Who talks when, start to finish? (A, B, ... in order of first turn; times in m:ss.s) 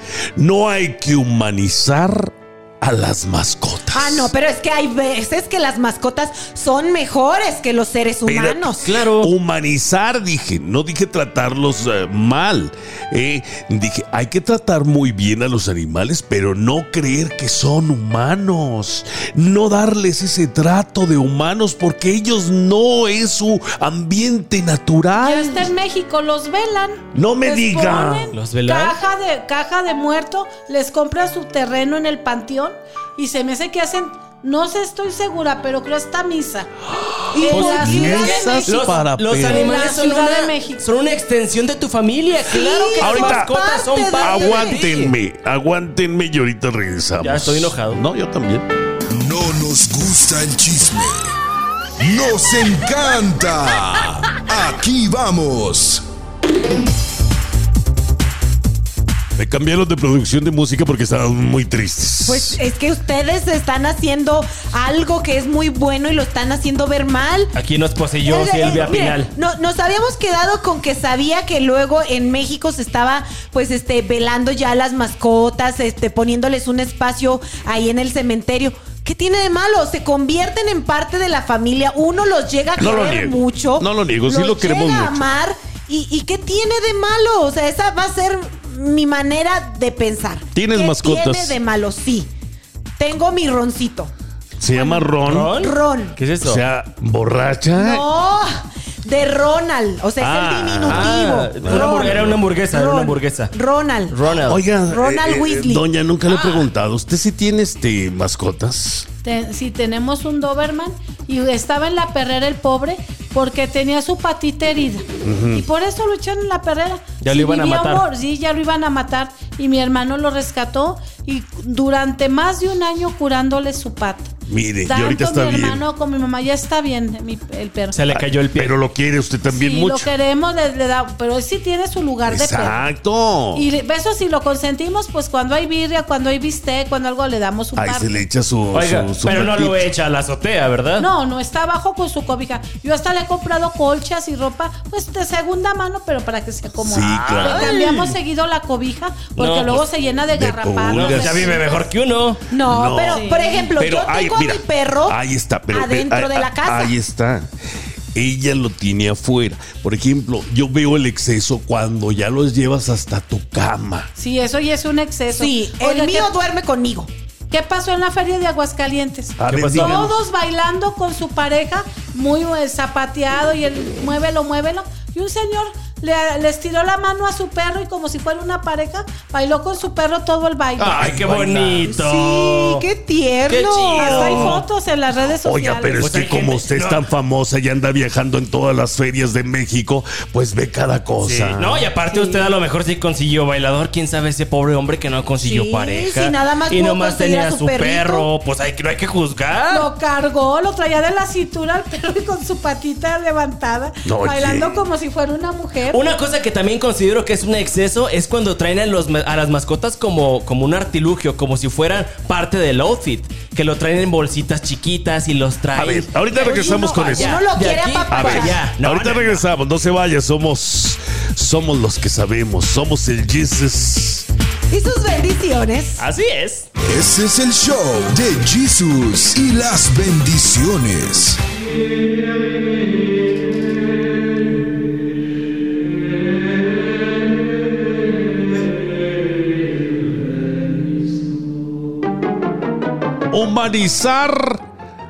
0:00.4-0:04.3 A
0:03.9-0:08.9 B
0:08.3-0:25.7 A
0:08.8-0:09.3 C
0:25.2-0:36.8 D
0:27.1-0:28.3 A
0:28.3-0:29.0 C
0:37.3-0:38.7 B
0:37.3-0:40.0 A
0:37.4-0:40.9 D
0:37.5-0:45.2 C
0:42.5-0:44.8 B
0:43.0-0:43.5 A
0:44.2-0:48.7 A
0:47.2-0:48.0 C
0:49.1-0:51.3 E
0:52.0-0:56.0 E
0:59.4-1:02.6 A
1:02.3-1:07.6 B
1:07.5-1:09.3 C
1:08.2-1:32.3 B
1:22.8-1:25.2 A
1:30.5-1:31.6 A
1:33.0-1:34.1 B
1:34.6-1:35.6 A
1:34.7-1:36.2 B
1:35.2-1:36.6 C
1:36.4-1:38.1 A
1:37.8-1:44.2 B
1:40.2-1:42.4 A
1:40.8-1:43.5 C
1:44.1-1:44.6 C
1:44.4-1:49.1 A
1:44.9-1:45.8 B
1:46.3-1:46.7 C
1:49.2-1:55.0 D
1:55.2-1:55.7 A
1:55.6-2:04.3 D
1:57.2-1:58.1 C
2:04.5-2:05.8 A
2:04.9-2:08.0 D
2:07.9-2:08.8 C
2:08.1-2:10.1 A
2:09.5-2:12.8 D
2:12.3-2:13.7 A
2:13.6-2:18.1 D
2:17.8-2:19.9 A
2:18.7-2:21.1 C
2:21.0-2:31.6 D
2:26.8-2:27.7 A
2:27.0-2:28.2 C
2:27.6-2:28.0 B
2:29.4-2:29.8 C
2:30.4-2:31.6 A
2:30.9-2:32.5 C
2:32.5-2:35.2 B
2:32.7-2:37.5 A
2:33.1-2:33.7 D
2:35.7-2:37.0 B
2:38.1-2:44.1 A
2:44.2-2:46.4 D
2:45.3-2:47.1 B
2:47.5-3:01.1 D
2:49.4-2:50.2 A
2:49.4-2:50.0 C
3:00.8-3:01.9 A
3:00.8-3:02.8 C
3:01.9-3:04.6 B
3:03.5-3:04.6 C
3:04.0-3:06.3 D
3:05.4-3:11.9 A
3:06.0-3:07.0 C
3:11.2-3:19.9 C
3:15.4-3:18.3 B
3:19.7-3:26.0 D
3:24.0-3:24.8 A
3:25.9-3:39.4 C
3:35.7-3:37.4 A
3:36.3-3:38.6 B
3:38.1-3:44.3 A
3:44.7-3:46.0 B
3:46.0-3:46.7 C
3:46.8-3:51.4 E
4:03.3-4:04.6 A